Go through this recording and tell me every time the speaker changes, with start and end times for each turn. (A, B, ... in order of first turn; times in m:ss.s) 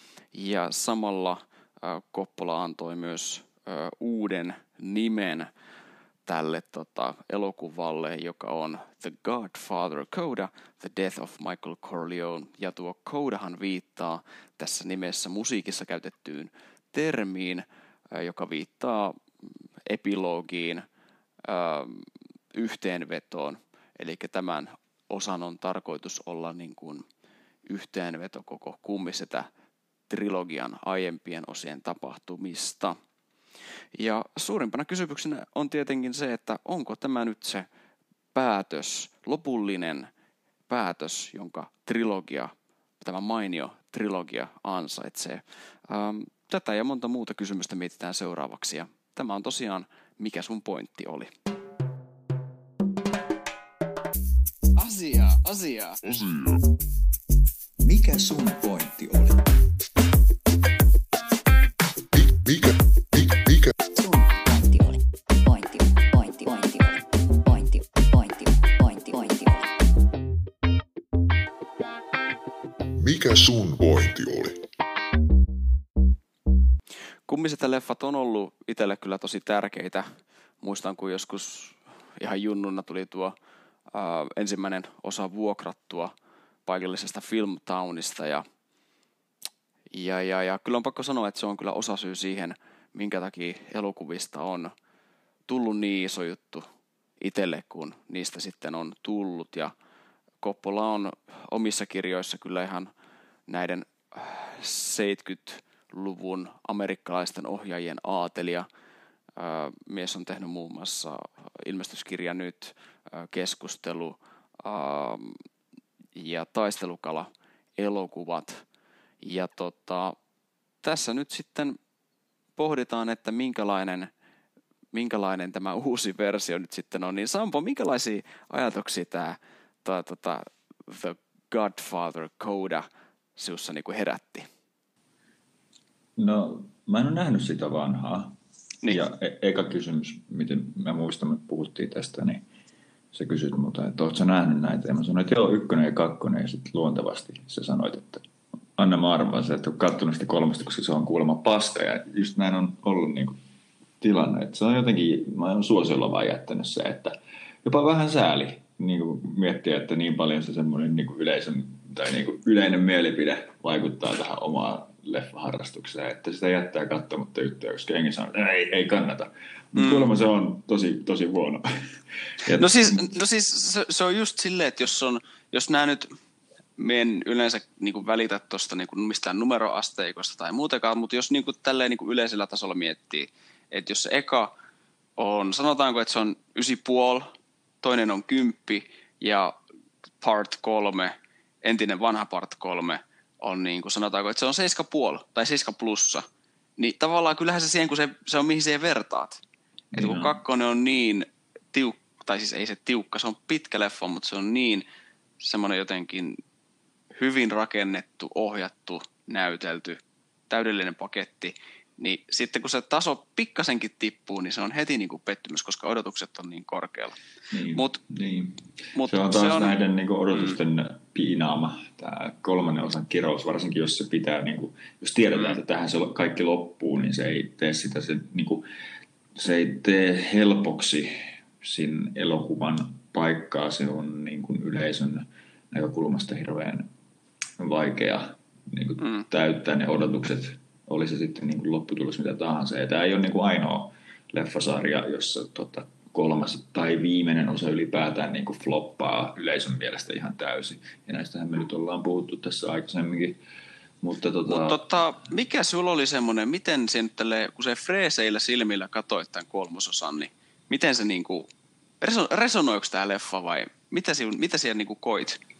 0:00.3-0:05.5 A
0:06.2-0:19.1 A
0:19.9-0:20.8 A
0:21.4-0:27.0 A
0:27.7-0:29.5 A
0:30.1-0:33.0 A
0:33.9-0:37.6 A
0:38.3-0:40.1 A
0:40.7-0:51.3 A
0:54.8-0:56.0 A
0:56.1-0:56.5 B
0:57.8-0:59.4 C
1:02.1-1:03.7 B
1:04.0-1:04.9 C
1:13.0-1:14.6 B
1:17.3-1:20.0 A
1:20.6-1:23.3 A
1:23.9-1:26.1 A
1:26.6-1:28.4 A
1:29.9-1:34.7 A
1:35.5-1:36.6 A
1:37.2-1:39.7 A
1:40.4-1:42.9 A
1:43.5-1:48.7 A
1:49.4-1:55.4 A
1:56.1-1:58.6 A
1:59.2-2:00.2 A
2:00.8-2:01.8 A
2:02.6-2:04.1 A
2:04.9-2:12.8 A
2:13.4-2:14.4 A
2:16.2-2:18.4 C
2:18.9-2:22.4 C
2:23.1-2:28.2 C
2:28.8-2:33.3 C
2:34.0-2:51.6 C
2:49.8-2:50.0 A
2:52.4-2:53.0 C
2:52.5-2:56.1 A
2:56.8-3:04.5 A
3:05.2-3:07.2 A
3:07.8-3:09.5 A
3:10.2-3:16.2 A
3:16.8-3:19.4 A
3:19.9-3:20.4 C
3:20.0-3:24.8 A
3:25.4-3:26.4 A
3:27.1-3:37.2 A
3:37.5-3:48.6 C
3:37.7-3:38.0 A
3:38.9-3:39.8 A
3:49.4-3:56.9 C
3:57.6-4:13.4 C
4:14.0-4:14.8 C
4:14.5-4:21.5 A
4:22.0-4:25.4 A